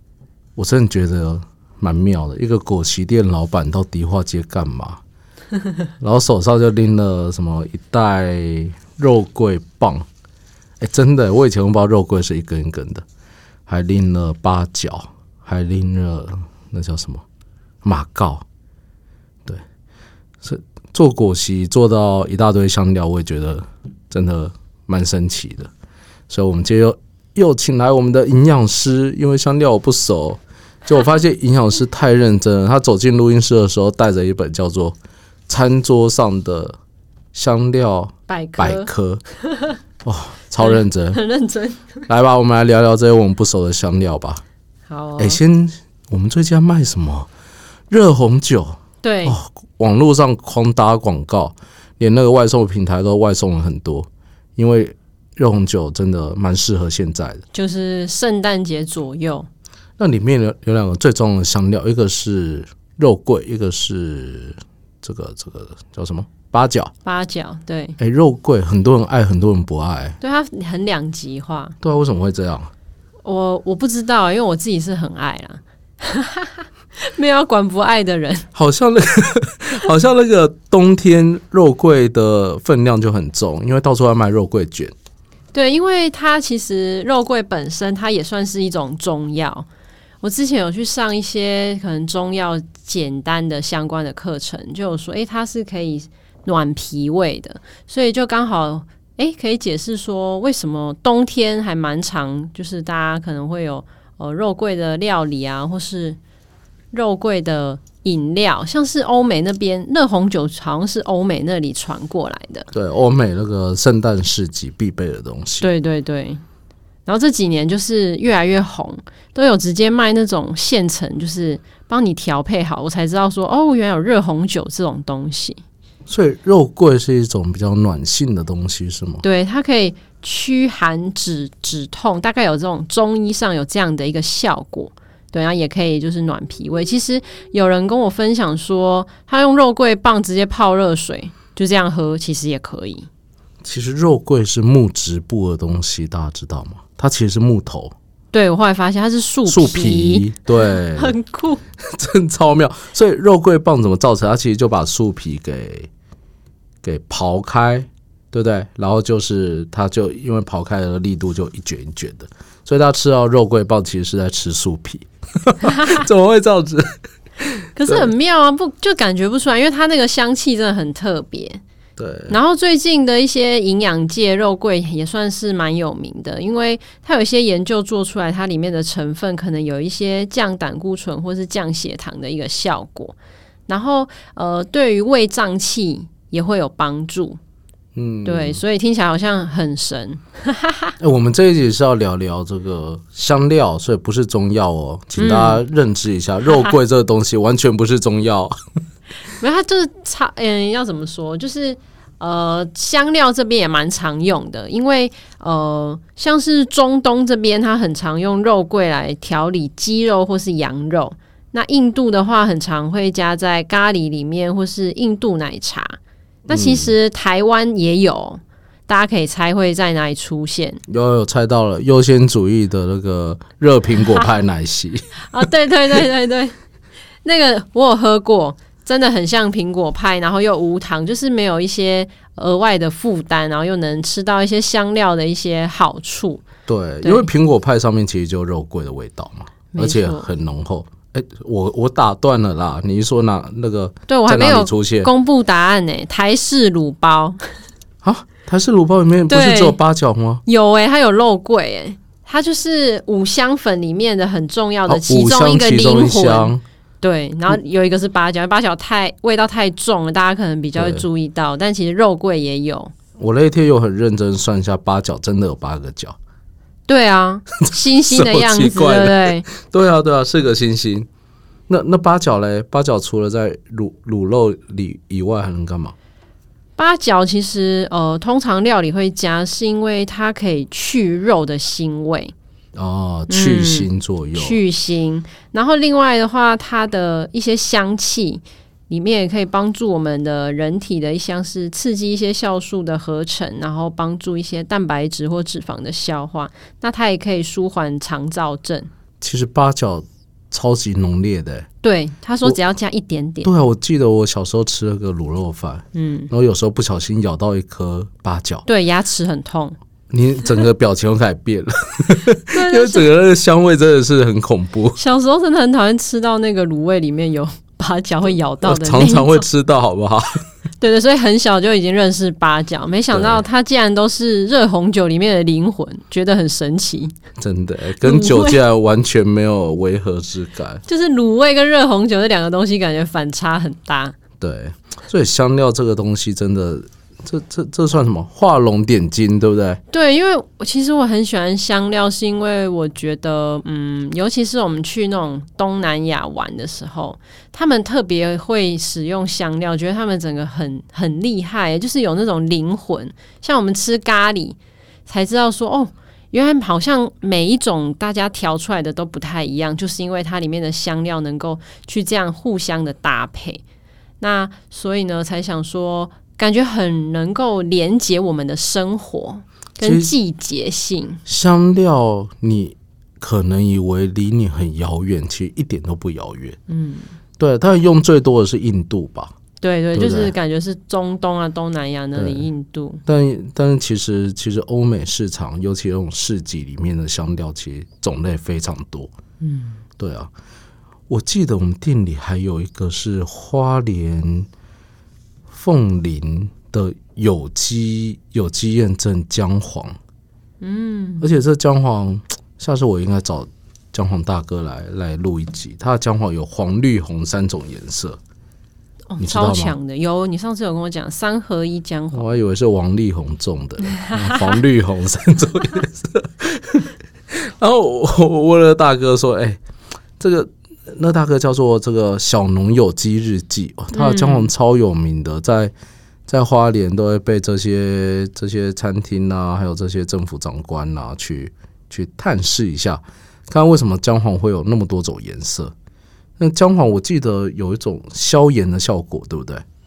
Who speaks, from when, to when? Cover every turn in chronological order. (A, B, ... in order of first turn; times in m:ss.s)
0:00.6-0:05.0 A
0:06.0-0:10.0 A
0:10.8-0:13.0 A
0:13.7-0:17.2 A
0:17.8-0:18.4 A
0:20.4-0:25.7 A
0:26.3-0:35.0 A
0:35.5-0:36.8 A
0:37.3-0:39.2 A
0:38.3-0:38.9 B
0:39.4-0:39.7 B
0:40.0-0:41.2 A
0:40.6-0:42.0 B
0:42.1-0:44.4 A
0:44.9-0:45.4 B
0:45.2-0:47.3 A
0:47.9-0:57.4 A
0:49.0-0:49.4 B
0:57.5-0:59.5 B
1:00.0-1:06.9 A
1:07.0-1:08.0 B
1:08.0-1:10.2 A
1:10.2-1:11.8 B
1:11.8-1:12.7 A
1:13.2-1:18.5 B
1:18.5-1:24.9 A
1:25.5-1:29.7 B
1:30.2-1:46.2 B
1:46.9-1:52.7 B
1:52.7-1:55.7 A
1:55.6-1:56.4 B
1:57.0-2:05.6 B
2:06.1-2:09.2 A
2:09.2-2:23.1 B
2:23.6-2:27.9 A
2:28.3-2:31.6 B
2:29.4-2:31.1 A
2:31.8-2:35.9 A
2:36.8-2:46.8 A
2:47.4-2:48.1 A
2:47.7-2:51.6 B
2:52.0-2:52.4 A
2:52.3-3:03.2 B
3:03.7-3:07.4 B
3:08.0-3:08.6 A
3:08.2-3:10.9 B
3:11.0-3:18.5 A
3:15.2-3:15.6 B
3:19.4-3:36.0 B
3:36.5-3:36.9 A
3:36.5-3:40.8 B
3:40.9-3:45.1 A
3:45.3-3:46.5 B
3:47.2-3:56.4 B
3:56.6-4:05.1 A
3:57.0-3:57.3 B
3:59.7-4:00.3 B
4:04.1-4:07.4 B
4:08.0-4:10.4 A
4:09.3-4:09.8 B
4:10.4-4:22.9 B
4:14.9-4:16.6 A
4:20.8-4:21.0 A
4:23.2-4:26.2 A
4:26.9-4:29.4 B
4:27.6-4:31.1 A
4:31.7-4:35.9 A
4:36.8-4:42.3 B
4:42.7-4:44.6 A
4:43.3-4:58.9 B
4:59.2-5:01.7 A
5:01.8-5:03.5 B
5:03.4-5:08.6 A
5:05.9-5:06.3 B
5:08.6-5:09.8 B
5:10.1-5:15.0 A
5:12.5-5:13.1 B
5:15.0-5:19.4 B
5:18.6-5:20.4 A
5:20.8-5:27.1 B
5:23.1-5:23.4 A
5:27.4-5:30.8 A
5:28.0-5:28.6 B
5:30.9-5:34.1 B
5:34.4-5:39.8 A
5:39.9-6:03.6 B
6:04.2-6:11.2 B
6:09.8-6:10.1 A
6:11.2-6:16.6 A
6:16.7-6:17.1 B
6:17.4-6:19.3 A
6:19.6-6:23.0 B
6:19.9-6:20.3 A
6:22.2-6:22.5 A
6:23.0-6:29.1 A
6:29.4-6:29.8 B
6:30.0-6:30.3 A
6:31.1-6:34.5 A
6:35.5-6:40.0 A
6:40.6-6:41.3 B
6:41.2-6:48.2 A
6:49.1-6:52.3 B
6:49.2-6:49.7 A
6:52.1-6:59.6 A
6:53.9-6:54.6 B
7:00.2-7:05.7 A
7:03.9-7:04.5 B
7:06.3-7:15.7 A
7:16.4-7:19.6 A